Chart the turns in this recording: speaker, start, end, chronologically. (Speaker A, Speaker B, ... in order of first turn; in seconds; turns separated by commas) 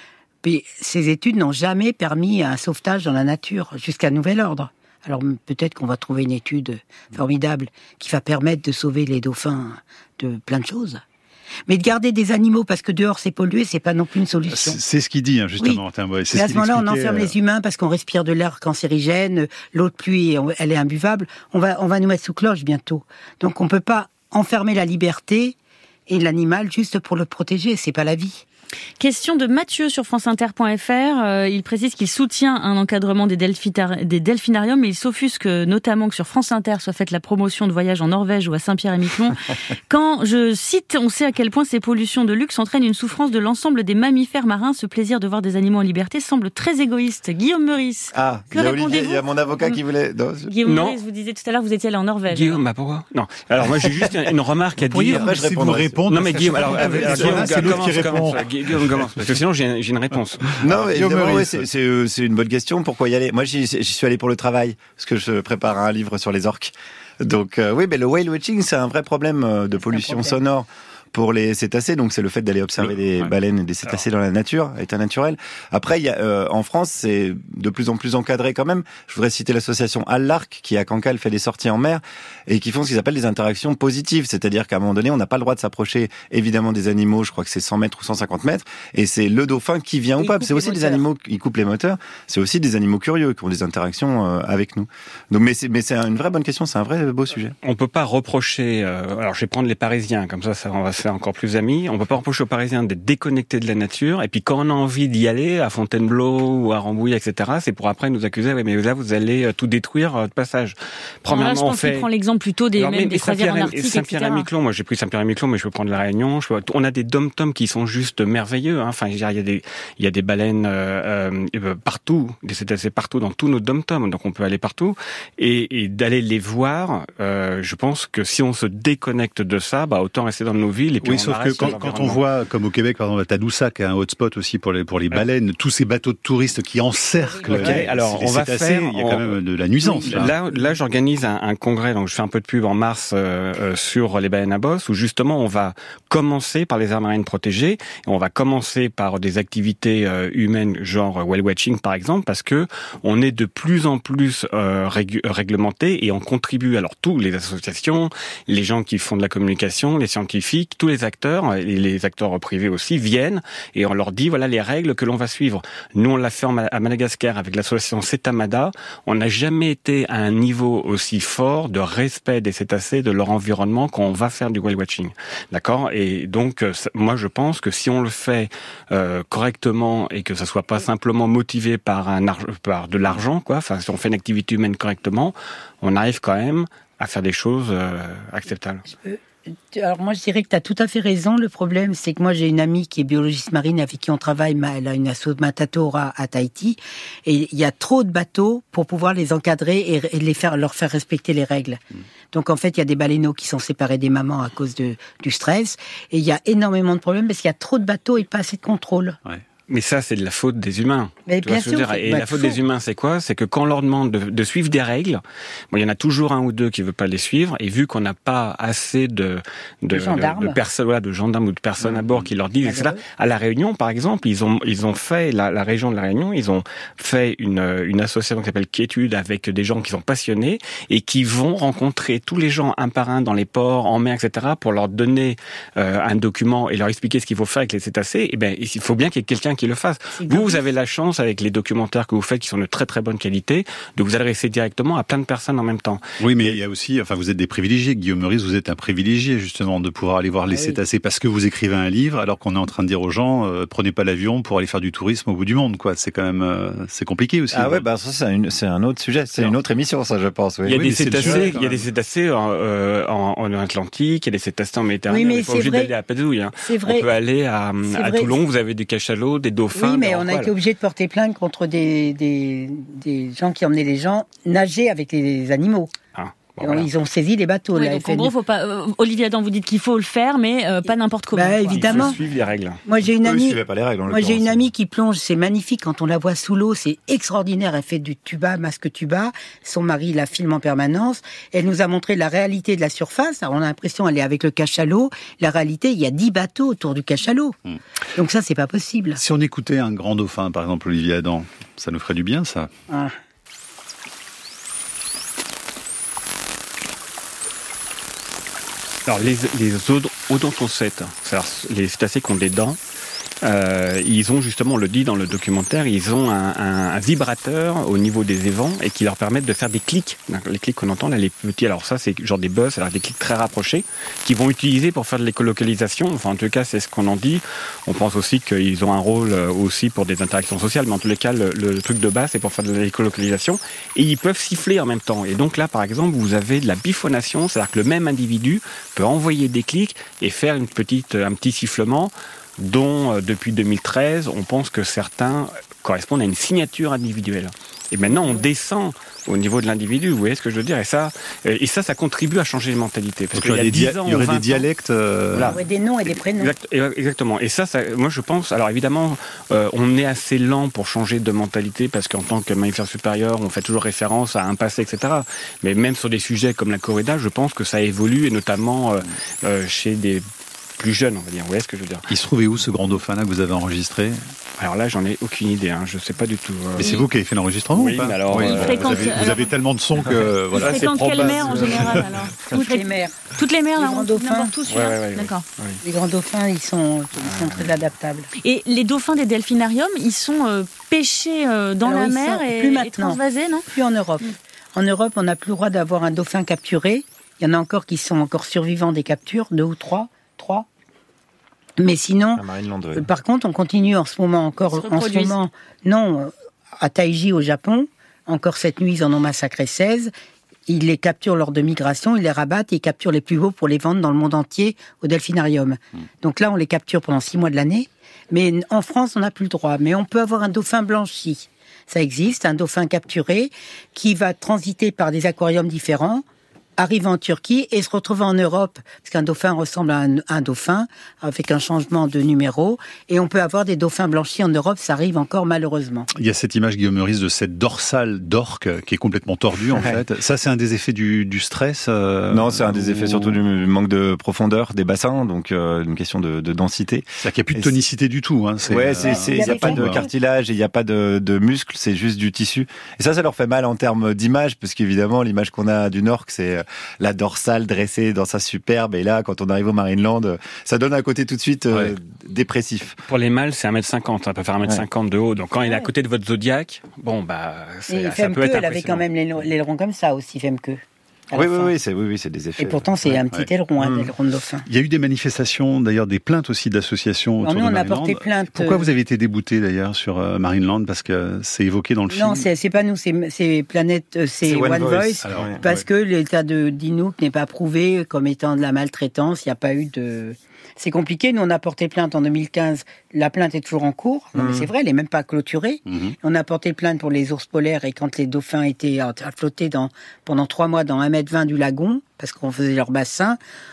Speaker A: 0.4-11.0, Speaker A: 11.7-14.8, Speaker B: 14.5-17.4, Speaker A: 15.6-25.6, Speaker A: 26.1-28.4, Speaker C: 29.0-49.8, Speaker D: 48.1-50.5, Speaker C: 50.5-52.6, Speaker E: 50.6-51.0, Speaker E: 52.3-55.3, Speaker B: 54.8-59.2, Speaker D: 55.1-58.4, Speaker E: 56.1-60.5, Speaker B: 60.6-61.7, Speaker D: 60.6-97.5, Speaker A: 69.8-70.4, Speaker A: 90.2-91.0, Speaker E: 97.6-112.1, Speaker C: 111.3-114.5, Speaker E: 112.8-132.2, Speaker B: 131.0-140.4, Speaker E: 137.4-188.8, Speaker A: 188.8-189.2, Speaker A: 189.7-201.8, Speaker A: 202.3-209.2, Speaker E: 209.7-215.2, Speaker A: 211.3-212.6, Speaker E: 215.7-246.6, Speaker A: 219.9-220.6, Speaker A: 222.6-223.0, Speaker A: 240.2-240.6, Speaker B: 246.2-257.8, Speaker A: 250.5-250.8, Speaker D: 257.5-261.5, Speaker E: 260.7-270.5, Speaker B: 260.7-261.9, Speaker A: 265.1-265.9, Speaker A: 266.6-267.1, Speaker A: 267.9-268.4, Speaker A: 269.8-275.9, Speaker E: 276.2-276.9, Speaker A: 276.6-278.3, Speaker C: 277.7-282.2, Speaker A: 280.9-282.2, Speaker E: 281.7-282.8, Speaker A: 282.9-297.6, Speaker D: 283.2-284.6, Speaker A: 298.1-299.2, Speaker B: 299.2-302.7, Speaker A: 302.9-303.2, Speaker E: 309.1-312.8, Speaker E: 313.4-354.6, Speaker A: 348.1-348.4, Speaker B: 353.3-355.6, Speaker E: 355.3-355.6, Speaker A: 355.5-356.5, Speaker E: 356.1-370.2, Speaker E: 370.8-372.1, Speaker B: 372.1-374.2, Speaker E: 374.6-377.0, Speaker B: 376.8-381.9, Speaker E: 377.7-379.3, Speaker C: 378.4-379.5, Speaker C: 380.5-385.4, Speaker E: 380.6-382.5, Speaker A: 382.5-383.2, Speaker A: 383.8-384.5, Speaker E: 384.7-385.8, Speaker A: 385.8-388.3, Speaker C: 388.4-393.7, Speaker A: 391.9-400.7, Speaker A: 401.8-402.4, Speaker D: 402.4-403.1, Speaker A: 402.9-410.1, Speaker C: 404.7-405.4, Speaker A: 410.7-426.2, Speaker A: 426.8-436.1, Speaker B: 436.1-443.4, Speaker D: 442.3-447.8, Speaker B: 447.2-450.0, Speaker D: 448.7-463.0, Speaker A: 449.0-450.1, Speaker B: 461.7-462.0, Speaker E: 463.1-469.0, Speaker A: 467.9-471.7, Speaker D: 471.3-473.2, Speaker A: 472.6-474.7, Speaker D: 473.8-474.1, Speaker B: 474.7-482.5, Speaker A: 477.4-478.9, Speaker A: 482.1-503.4, Speaker D: 484.4-485.6, Speaker B: 485.2-485.8, Speaker D: 494.4-494.7, Speaker B: 495.9-496.1